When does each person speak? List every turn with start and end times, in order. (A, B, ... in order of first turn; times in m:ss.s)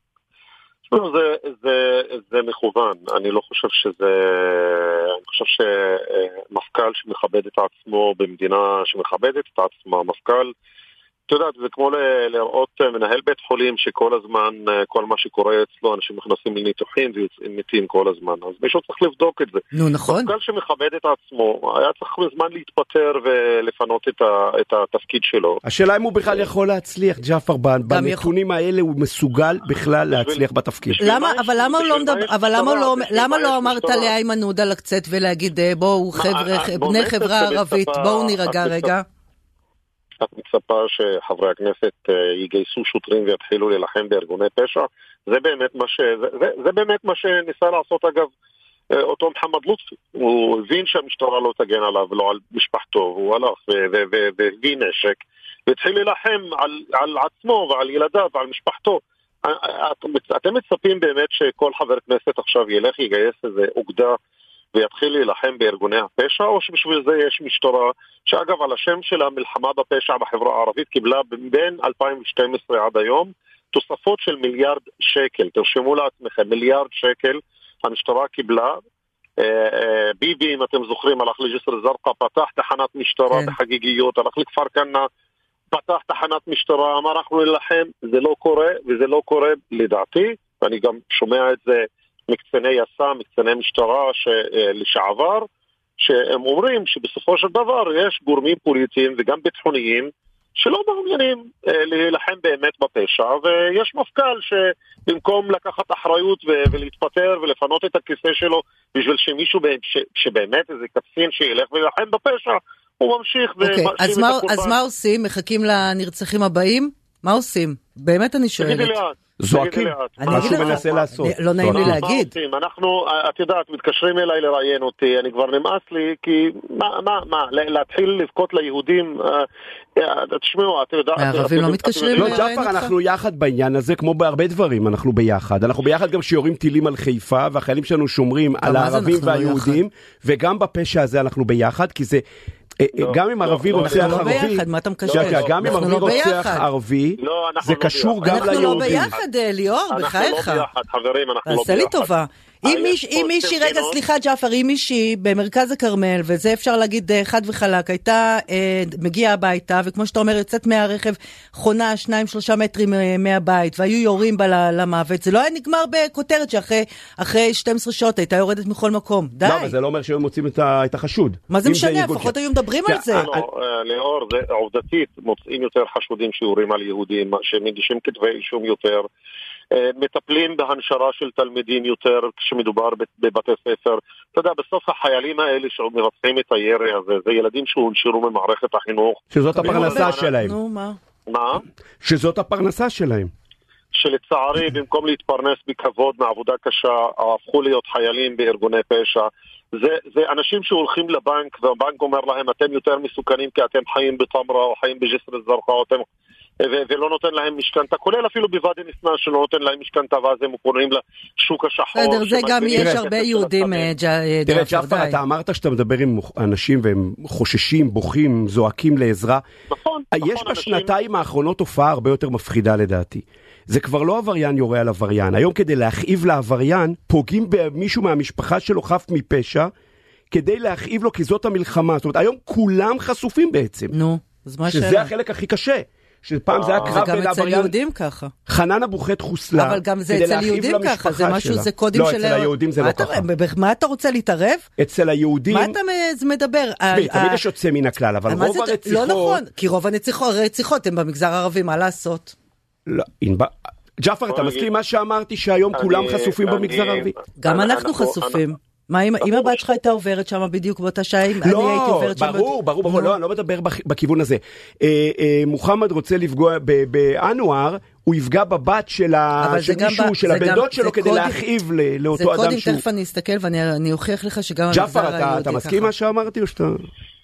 0:00.9-0:10.5 A
0:11.3-0:25.6 A
0:19.7-0:20.3 B
0:25.6-0:31.0 C
0:27.9-0:28.3 B
0:30.1-0:34.1 A
0:31.0-0:39.0 B
0:36.2-0:38.9 A
0:40.2-0:48.3 A
0:48.9-1:04.2 A
1:04.7-1:18.8 A
1:19.4-1:25.1 A
1:25.7-1:35.5 A
1:36.0-1:54.8 A
1:53.6-1:59.0 B
1:58.6-2:01.1 A
1:59.4-2:02.0 C
2:00.2-2:02.3 B
2:01.6-2:09.5 A
2:10.0-2:12.4 A
2:11.2-2:12.9 B
2:12.2-2:22.2 C
2:18.6-2:19.8 B
2:22.8-2:29.1 C
2:23.0-2:24.4 A
2:23.7-2:26.7 B
2:25.0-2:26.3 A
2:27.2-2:29.2 A
2:28.2-2:30.7 B
2:29.9-2:32.1 A
2:31.5-2:49.8 B
2:32.6-2:34.0 A
2:49.4-2:52.4 C
2:51.5-2:53.3 B
2:52.9-2:53.4 C
2:53.1-2:59.1 A
2:59.7-3:10.3 A
3:09.3-3:10.6 C
3:09.5-3:11.0 B
3:11.3-3:11.6 A
3:12.0-3:13.3 C
3:14.0-3:26.0 A
3:26.6-3:33.9 A
3:31.9-3:35.2 B
3:32.8-3:33.0 C
3:34.5-3:39.5 C
3:39.7-3:40.9 A
3:40.1-3:49.7 C
3:50.3-3:53.9 C
3:53.9-3:55.1 B
3:54.7-3:57.8 C
3:56.5-3:57.1 A
3:56.8-3:58.3 B
3:58.5-4:03.3 C
3:59.5-4:04.7 B
4:04.8-4:05.8 C
4:05.5-4:07.4 B
4:06.9-4:09.4 C
4:08.3-4:12.4 B
4:12.9-4:17.1 C
4:14.3-4:14.7 A
4:15.7-4:18.4 A
4:17.4-4:23.2 B
4:19.2-4:19.8 A
4:21.4-4:32.8 C
4:29.4-4:31.4 B
4:32.1-4:35.9 B
4:34.7-4:36.9 C